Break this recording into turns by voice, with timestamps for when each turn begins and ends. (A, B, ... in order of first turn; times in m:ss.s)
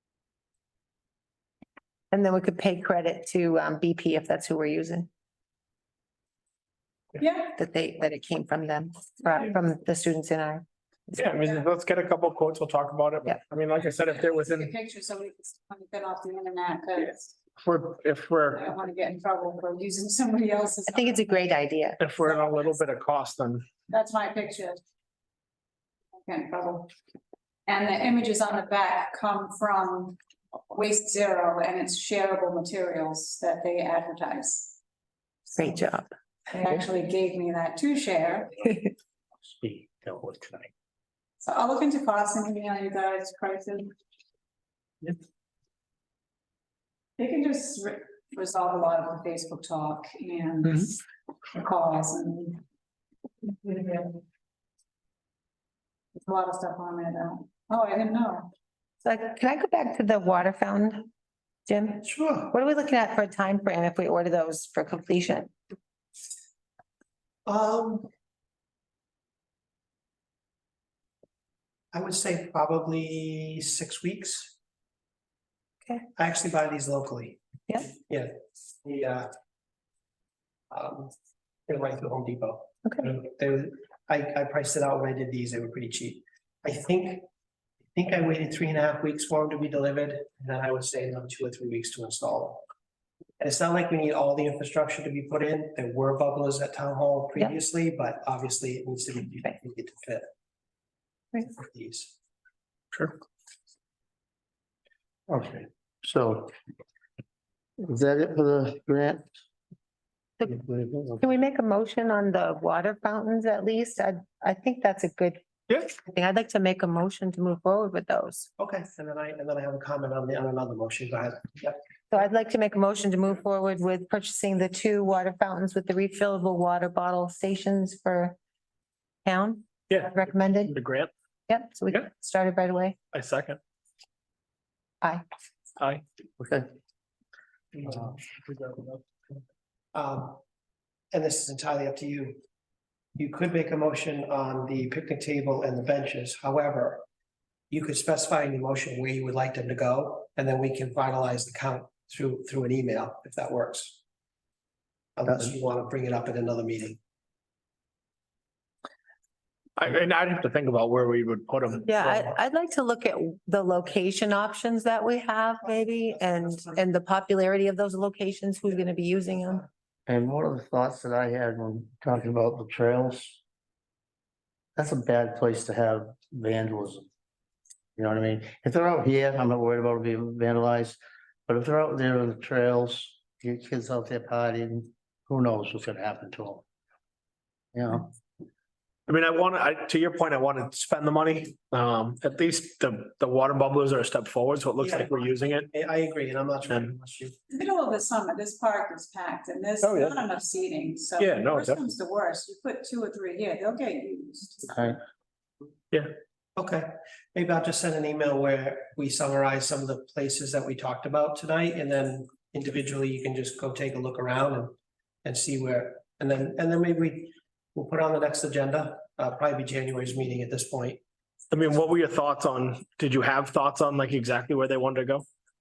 0:02.1-0:05.1 A
0:07.2-0:07.5 B
0:07.6-0:10.6 A
0:11.1-0:14.7 C
0:14.0-0:17.4 B
0:17.6-0:18.6 C
0:18.5-0:21.5 B
0:20.9-0:22.0 A
0:22.0-0:23.6 C
0:23.9-0:24.8 B
0:26.2-0:26.9 B
0:27.7-0:30.2 B
0:30.7-0:34.8 B
0:35.5-0:36.1 A
0:36.5-0:38.7 B
0:39.4-0:40.7 D
0:41.4-0:43.9 B
0:47.2-0:52.6 B
0:53.4-0:54.2 B
0:56.2-0:58.5 B
0:59.0-1:01.1 A
1:01.7-1:05.5 A
1:02.0-1:02.5 E
1:07.4-1:08.1 E
1:11.9-1:14.6 E
1:16.2-1:18.3 E
1:17.7-1:17.9 A
1:18.8-1:19.3 E
1:20.7-1:21.1 E
1:21.7-1:27.3 E
1:27.9-1:32.7 E
1:33.4-1:40.3 E
1:41.4-1:42.1 E
1:45.3-1:46.5 D
1:47.8-1:49.3 D
1:50.4-1:51.3 D
1:51.2-1:58.5 A
1:58.6-2:01.8 E
2:02.1-2:08.4 A
2:09.2-2:10.8 A
2:09.9-2:10.2 C
2:10.7-2:11.1 C
2:11.5-2:13.0 A
2:13.1-2:13.6 C
2:16.4-2:16.7 D
2:17.8-2:19.0 C
2:17.9-2:18.1 D
2:19.9-2:20.4 E
2:21.1-2:22.4 E
2:23.2-2:27.0 E
2:27.7-2:34.0 E
2:35.2-2:37.0 E
2:39.8-2:42.2 C
2:41.8-2:49.6 A
2:50.1-2:53.4 D
2:54.8-2:57.0 D
2:58.0-3:06.6 D
3:07.7-3:08.1 D
3:09.1-3:15.7 C
3:14.8-3:17.4 E
3:17.5-3:24.9 B
3:19.8-3:20.2 C
3:21.2-3:21.8 C
3:24.7-3:25.0 D
3:26.6-3:41.0 E
3:41.5-3:45.2 C